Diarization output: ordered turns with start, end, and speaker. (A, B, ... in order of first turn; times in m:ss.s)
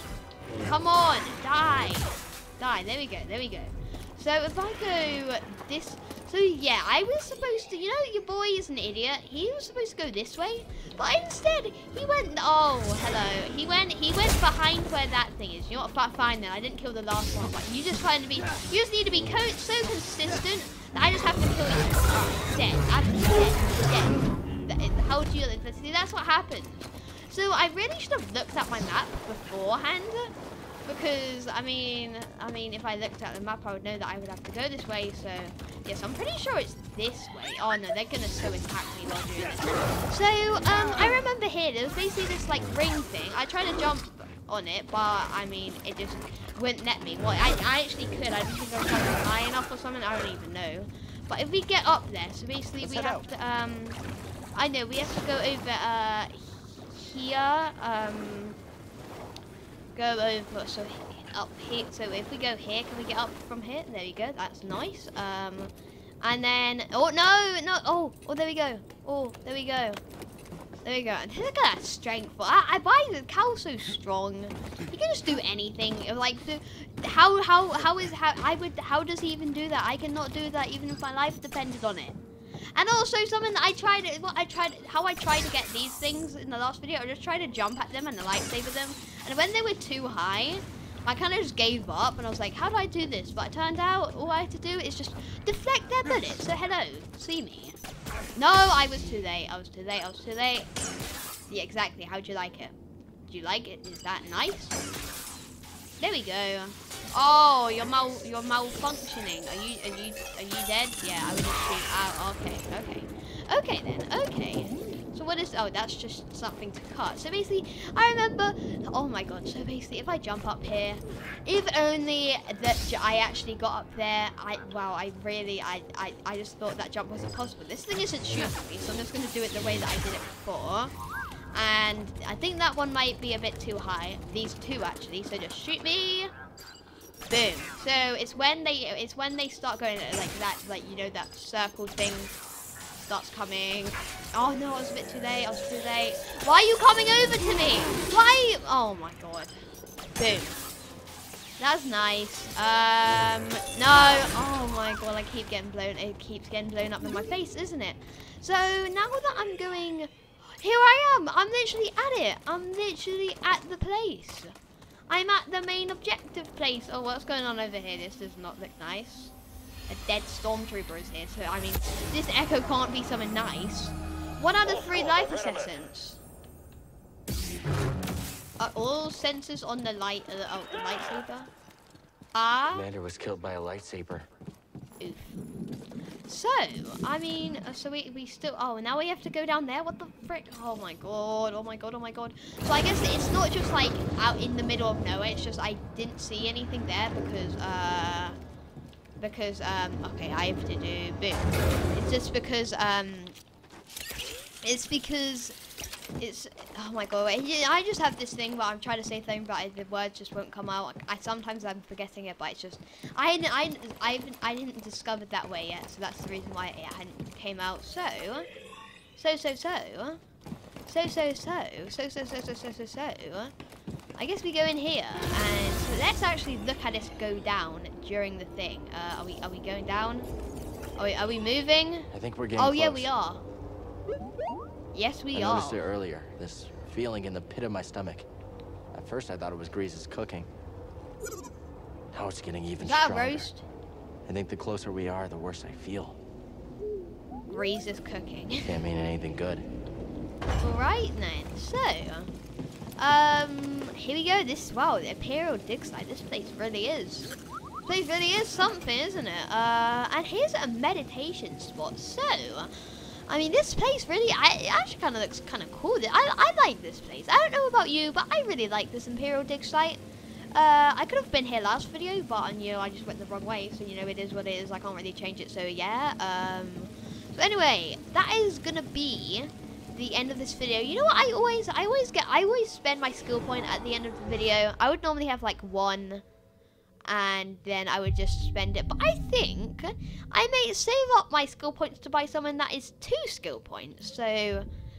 0:00.6-0:30.3 A
0:30.8-0:54.0 A
0:52.8-0:53.3 B
0:54.5-0:58.6 A
0:59.9-1:10.0 A
1:10.8-1:22.2 A
1:22.7-1:37.8 A
1:38.4-1:40.7 A
1:41.5-1:42.7 A
1:43.3-1:44.8 A
1:46.0-2:10.9 A
2:11.5-2:16.3 A
2:17.3-2:22.3 A
2:23.0-2:29.6 A
2:30.1-2:30.6 A
2:31.6-2:44.5 A
2:45.1-2:49.3 A
2:49.9-2:56.2 A
2:58.6-3:01.5 A
3:02.3-3:02.9 A
3:02.7-3:04.3 B
3:05.0-3:05.4 A
3:06.3-3:18.4 A
3:19.2-3:23.4 A
3:24.6-3:25.6 A
3:26.2-3:38.5 A
3:39.2-3:40.2 A
3:40.8-3:43.5 A
3:44.2-3:50.3 A
3:51.0-3:53.4 A
3:52.1-3:53.1 B
3:54.9-3:55.9 A
3:55.3-3:58.3 B
3:58.9-4:00.5 B
4:02.1-4:03.5 B
4:02.8-4:03.6 A
4:04.2-4:06.2 B
4:07.5-4:08.7 A
4:08.6-4:09.6 B
4:10.6-4:12.3 A
4:13.0-4:17.3 A
4:17.8-4:22.7 A
4:23.3-4:30.0 A
4:30.5-4:46.2 A
4:47.1-4:54.7 A